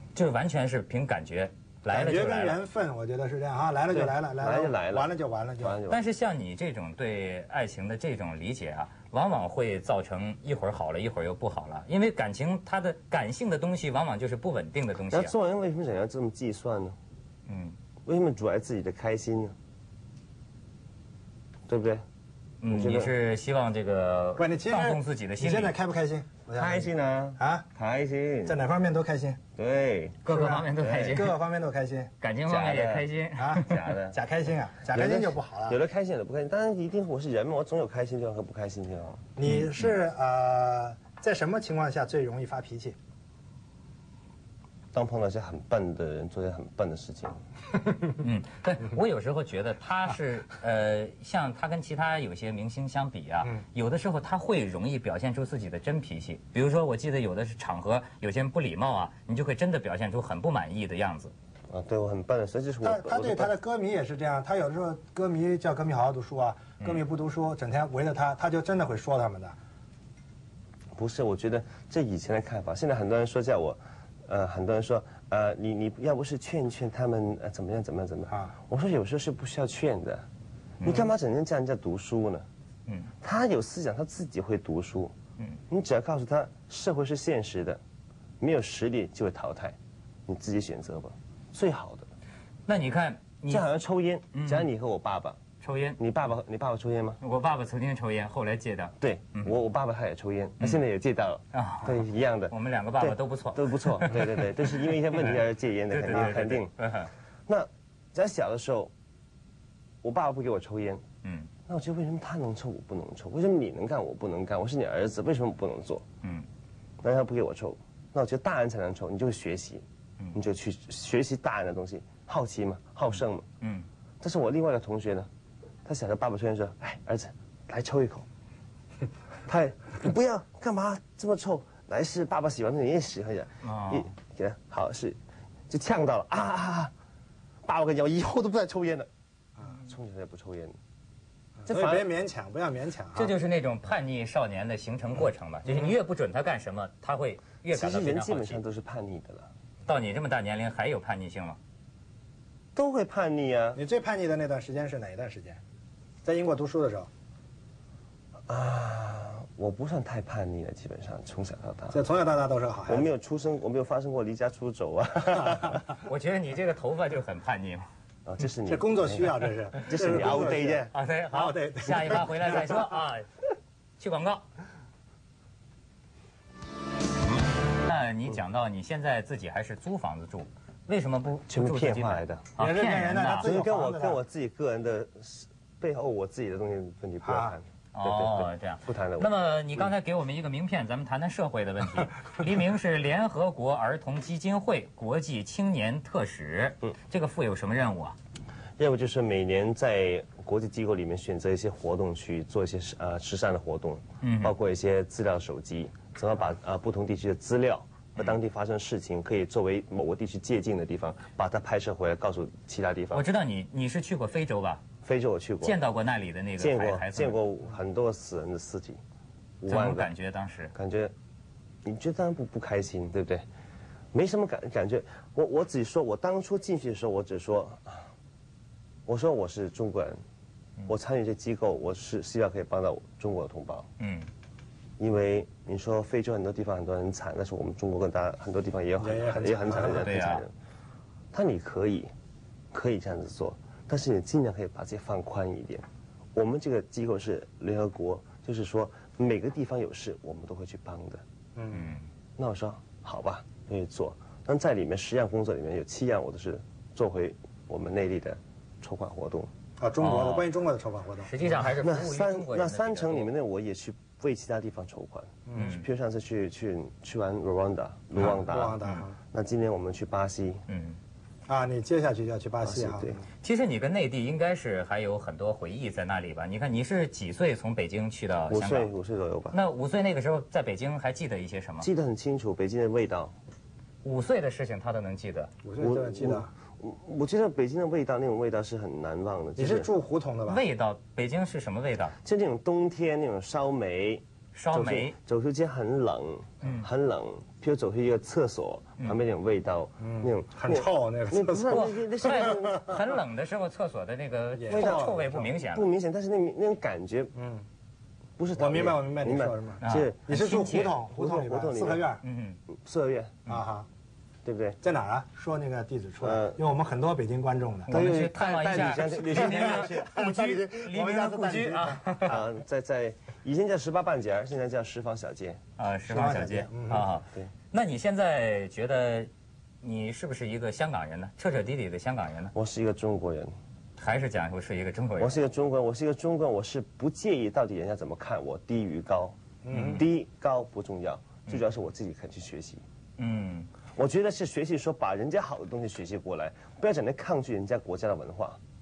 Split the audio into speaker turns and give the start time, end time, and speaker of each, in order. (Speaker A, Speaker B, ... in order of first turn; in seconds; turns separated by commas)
Speaker A: 0.1-2.6, Speaker B: 1.9-5.8, Speaker C: 3.9-6.0, Speaker A: 5.9-15.3, Speaker C: 15.1-16.9, Speaker A: 17.5-17.8, Speaker C: 18.1-19.5, Speaker C: 21.7-22.0, Speaker A: 22.6-25.7, Speaker C: 22.7-23.1, Speaker B: 24.4-27.6, Speaker C: 26.5-28.6, Speaker B: 28.4-29.4, Speaker C: 29.6-30.2, Speaker A: 30.2-31.3, Speaker B: 30.3-32.1, Speaker C: 30.8-31.2, Speaker A: 32.2-33.8, Speaker C: 32.5-33.1, Speaker B: 33.4-35.8, Speaker C: 33.6-34.2, Speaker C: 34.9-39.2, Speaker B: 39.4-43.0, Speaker A: 39.5-39.9, Speaker C: 44.9-47.4, Speaker A: 48.2-61.3, Speaker C: 61.7-63.5, Speaker B: 62.8-69.5, Speaker C: 71.0-80.2, Speaker C: 80.8-82.5, Speaker C: 83.2-85.1, Speaker C: 85.7-87.8, Speaker C: 88.4-89.8, Speaker C: 90.3-92.1, Speaker A: 92.7-93.6, Speaker C: 93.5-95.4, Speaker A: 94.3-94.7, Speaker A: 95.6-96.0, Speaker C: 96.0-97.2, Speaker A: 97.2-99.5, Speaker C: 99.0-106.7, Speaker A: 101.5-101.9, Speaker A: 102.5-104.4, Speaker A: 105.9-107.1, Speaker C: 107.5-108.9, Speaker C: 110.0-111.0, Speaker A: 111.2-111.5, Speaker C: 111.7-116.0, Speaker C: 117.0-123.5, Speaker A: 123.6-123.9, Speaker C: 124.2-125.3, Speaker C: 125.8-128.2, Speaker C: 129.4-135.2, Speaker A: 133.6-134.1, Speaker C: 135.7-136.9, Speaker C: 137.6-139.1, Speaker C: 139.8-140.8, Speaker B: 141.6-143.3, Speaker C: 141.7-142.1, Speaker A: 143.1-148.6, Speaker C: 147.7-149.5, Speaker A: 149.8-151.6, Speaker C: 152.8-153.8, Speaker B: 153.8-155.6, Speaker B: 156.2-157.1, Speaker C: 158.5-162.0, Speaker B: 161.9-163.1, Speaker C: 162.9-165.9, Speaker A: 166.0-167.8, Speaker C: 168.2-170.9, Speaker B: 168.7-172.8, Speaker A: 170.9-173.3, Speaker A: 174.0-174.4, Speaker A: 177.8-183.5, Speaker C: 181.5-182.5, Speaker B: 182.6-184.2, Speaker C: 183.4-189.9, Speaker B: 187.2-187.5, Speaker A: 187.9-198.2, Speaker C: 198.8-213.2, Speaker A: 204.2-204.5, Speaker A: 213.1-214.8, Speaker C: 215.0-215.8, Speaker A: 215.6-217.3, Speaker C: 216.6-219.0, Speaker C: 219.6-220.1, Speaker A: 219.7-220.7, Speaker C: 220.7-221.1, Speaker C: 221.8-223.4, Speaker C: 224.1-228.1, Speaker C: 229.1-230.2, Speaker C: 230.9-233.9, Speaker A: 234.0-234.3, Speaker C: 235.0-240.5, Speaker B: 239.0-240.2, Speaker A: 239.8-240.4, Speaker C: 241.3-242.1, Speaker C: 242.7-251.2, Speaker B: 251.6-251.9, Speaker A: 251.7-252.0, Speaker C: 252.4-259.5, Speaker B: 259.8-261.6, Speaker A: 260.0-260.5, Speaker A: 261.2-263.3, Speaker C: 261.8-268.8, Speaker A: 265.5-265.8, Speaker B: 268.2-269.2, Speaker C: 269.3-270.6, Speaker A: 270.7-271.0, Speaker B: 271.5-273.2, Speaker C: 272.6-273.2, Speaker A: 273.4-278.9, Speaker C: 278.5-279.6, Speaker A: 279.5-281.9, Speaker C: 281.8-283.3, Speaker A: 284.0-285.5, Speaker B: 285.6-286.5, Speaker C: 285.8-289.9, Speaker B: 289.6-290.6, Speaker A: 290.5-292.1, Speaker C: 292.2-303.0, Speaker A: 294.5-295.1, Speaker A: 296.6-296.9, Speaker B: 300.0-302.5, Speaker A: 301.7-305.9, Speaker B: 304.6-305.4, Speaker C: 304.7-307.3, Speaker B: 307.4-307.6, Speaker C: 308.4-312.1, Speaker B: 308.6-312.2, Speaker A: 309.8-310.9, Speaker A: 312.2-312.6, Speaker C: 312.7-313.4, Speaker B: 313.5-313.9, Speaker C: 314.4-314.8, Speaker B: 314.8-317.9, Speaker C: 316.2-316.6, Speaker C: 317.9-320.3, Speaker A: 317.9-322.4, Speaker B: 319.1-322.4, Speaker C: 322.2-325.6, Speaker A: 325.8-329.3, Speaker B: 326.1-327.1, Speaker A: 329.8-332.5, Speaker C: 332.5-333.5, Speaker A: 334.0-335.4, Speaker C: 335.2-342.8, Speaker B: 339.6-340.0, Speaker A: 339.7-340.0, Speaker A: 343.2-343.7, Speaker C: 343.9-348.6